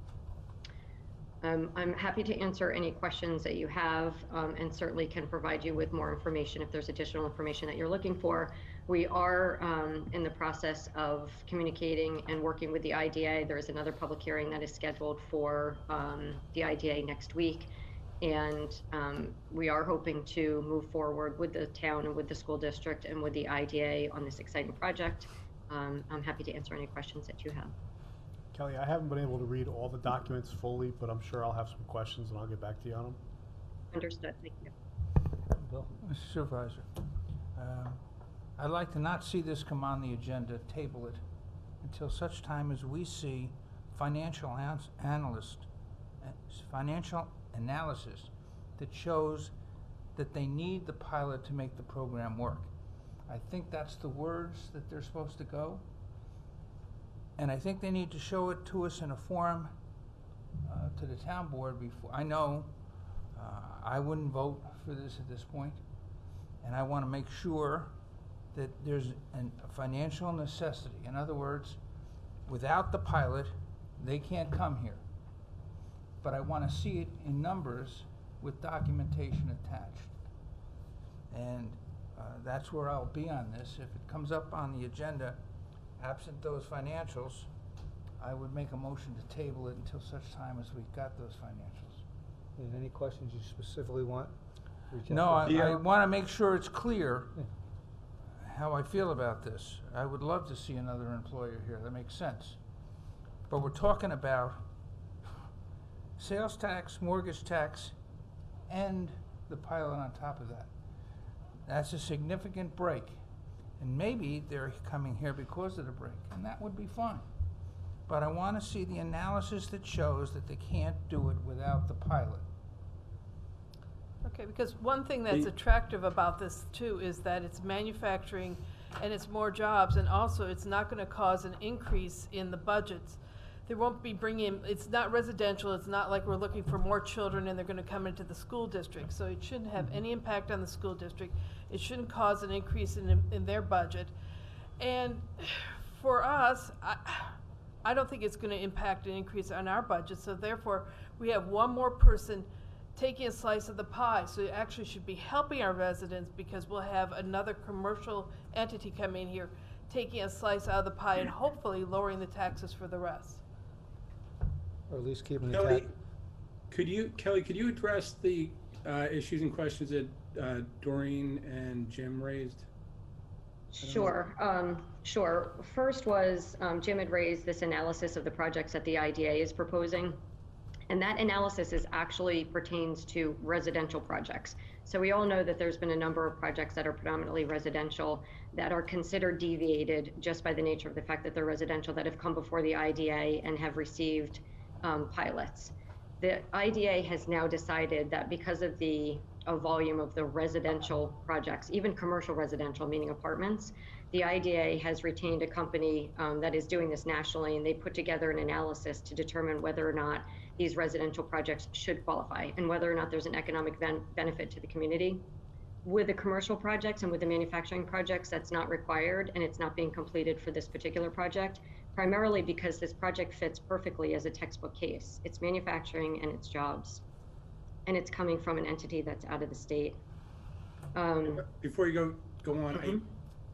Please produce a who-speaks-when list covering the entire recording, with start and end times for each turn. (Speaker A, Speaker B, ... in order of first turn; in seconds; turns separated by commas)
Speaker A: 1.4-27.7, Speaker B: 28.5-33.2, Speaker A: 33.9-34.7, Speaker C: 35.6-35.9, Speaker D: 36.0-36.9, Speaker D: 37.5-38.0, Speaker D: 38.6-41.2, Speaker D: 41.8-45.6, Speaker D: 46.2-49.5, Speaker D: 50.1-52.7, Speaker D: 53.3-55.8, Speaker D: 57.4-59.7, Speaker D: 60.6-62.7, Speaker D: 63.3-65.8, Speaker D: 66.6-67.9, Speaker D: 68.5-71.8, Speaker D: 72.5-75.0, Speaker D: 76.2-80.2, Speaker D: 81.3-85.4, Speaker D: 86.0-87.5, Speaker D: 88.2-92.0, Speaker C: 92.6-94.3, Speaker C: 94.9-95.8, Speaker D: 95.1-97.4, Speaker D: 98.4-102.6, Speaker D: 103.5-104.7, Speaker D: 106.2-107.9, Speaker D: 108.7-110.7, Speaker D: 111.6-113.2, Speaker D: 113.8-117.3, Speaker D: 118.1-122.4, Speaker E: 124.2-144.1, Speaker E: 144.8-163.4, Speaker C: 164.9-165.9, Speaker F: 165.5-165.9, Speaker F: 166.7-172.7, Speaker A: 173.7-180.2, Speaker A: 180.9-215.2, Speaker A: 215.8-227.0, Speaker A: 227.8-230.0, Speaker A: 230.9-231.4, Speaker F: 231.4-233.0